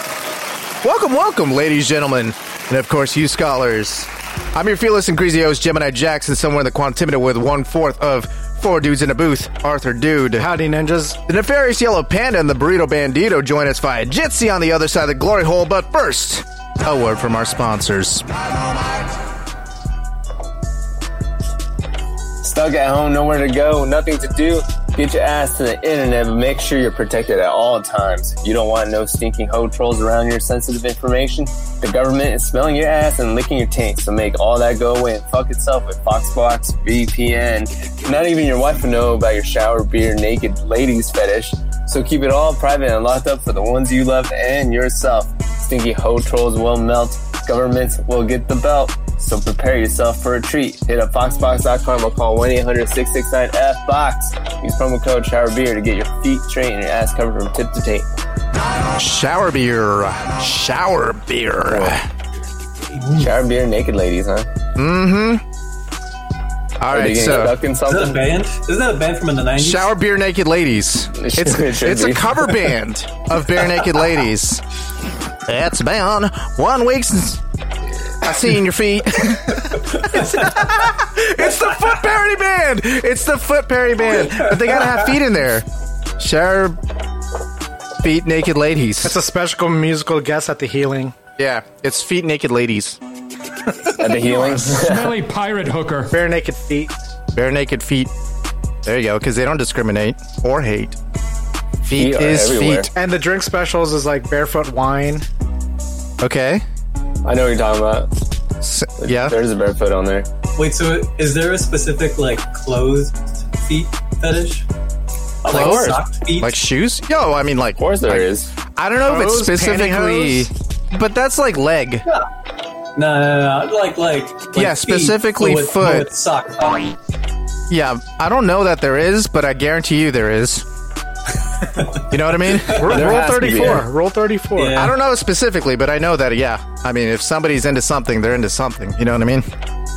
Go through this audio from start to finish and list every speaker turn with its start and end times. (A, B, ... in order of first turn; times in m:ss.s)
0:00.8-0:10.5 A
0:10.4-0:11.2 B
0:11.3-0:18.3 A
0:22.4-0:58.1 C
0:59.0-1:02.1 A
1:01.7-1:02.0 C
1:03.0-1:03.3 D
1:03.1-1:04.5 C
1:04.8-1:05.4 A
1:06.8-1:07.6 A
1:06.9-1:08.2 C
1:07.9-1:09.9 D
1:09.6-1:14.6 A
1:11.2-1:12.5 C
1:15.5-1:17.4 A
1:18.2-1:25.7 A
1:19.9-1:20.5 D
1:26.2-1:26.8 A
1:28.0-1:29.2 A
1:29.0-1:31.1 B
1:31.4-1:33.0 A
1:34.0-1:35.2 C
1:34.2-1:36.1 E
1:36.1-1:36.9 B
1:37.3-1:38.1 A
1:38.8-1:41.0 A
1:41.8-1:42.9 A
1:41.9-1:42.9 C
1:42.9-1:45.2 B
1:46.2-1:46.6 A
1:47.2-1:48.1 C
1:48.6-1:49.4 A
1:49.0-1:50.3 C
1:50.6-1:54.7 D
1:55.4-1:56.6 D
1:55.5-2:02.1 A
1:55.5-1:56.0 C
1:57.8-1:58.5 C
1:59.0-2:00.5 B
2:03.0-2:07.0 D
2:04.5-2:06.1 A
2:07.7-2:10.7 A
2:11.8-2:13.0 D
2:12.1-2:13.2 A
2:12.8-2:14.9 B
2:12.9-2:13.9 C
2:14.6-2:14.9 D
2:14.8-2:19.5 A